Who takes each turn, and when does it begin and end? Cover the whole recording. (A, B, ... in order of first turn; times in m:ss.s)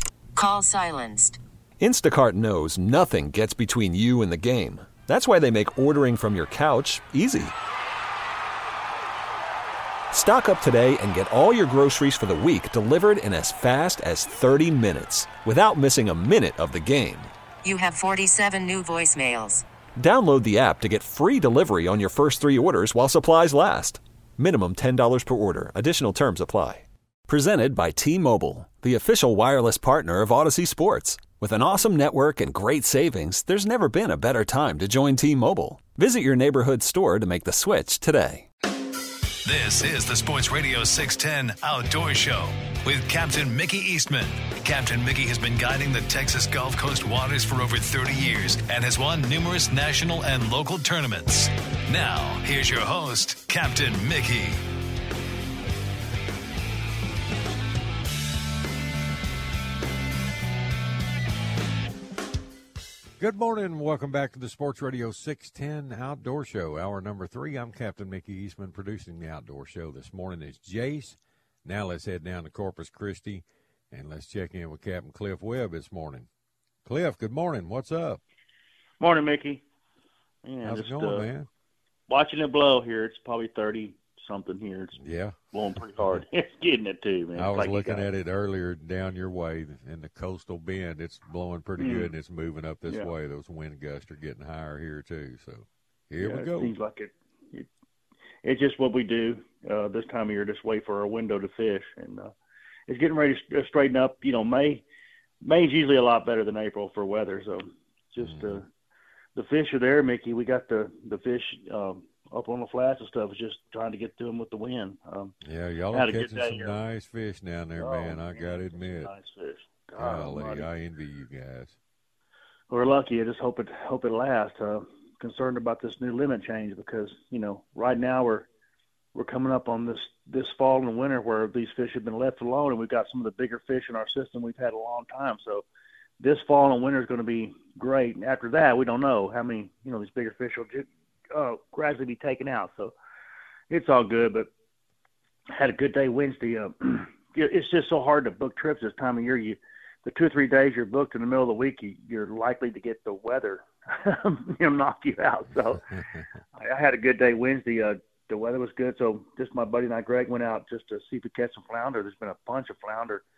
0:00.4-0:01.4 A
0:01.8-0:07.5 B
0:10.1-0:17.3 B
0:17.6-0:19.6 A
0:20.0-0:38.5 B
0:39.4-0:54.6 C
1:03.2-1:16.3 D
1:16.8-1:18.2 D
1:19.0-1:19.6 E
1:20.4-1:21.3 E
1:20.6-1:21.5 D
1:22.1-1:25.0 E
1:25.0-1:26.2 D
1:25.5-1:28.1 E
1:27.4-1:36.8 D
1:31.8-1:32.1 E
1:36.2-1:37.7 E
1:38.4-1:42.3 E
1:42.9-1:44.8 E
1:45.4-1:48.7 E
1:48.2-1:48.6 D
1:49.4-1:55.3 E
1:55.4-1:59.1 D
1:55.9-1:56.8 E
1:57.8-2:00.7 E
2:00.0-2:01.8 D
2:02.7-2:08.5 E
2:09.2-2:15.6 E
2:16.2-2:22.9 E
2:23.7-2:24.5 E
2:25.5-2:35.8 E
2:36.6-2:43.2 E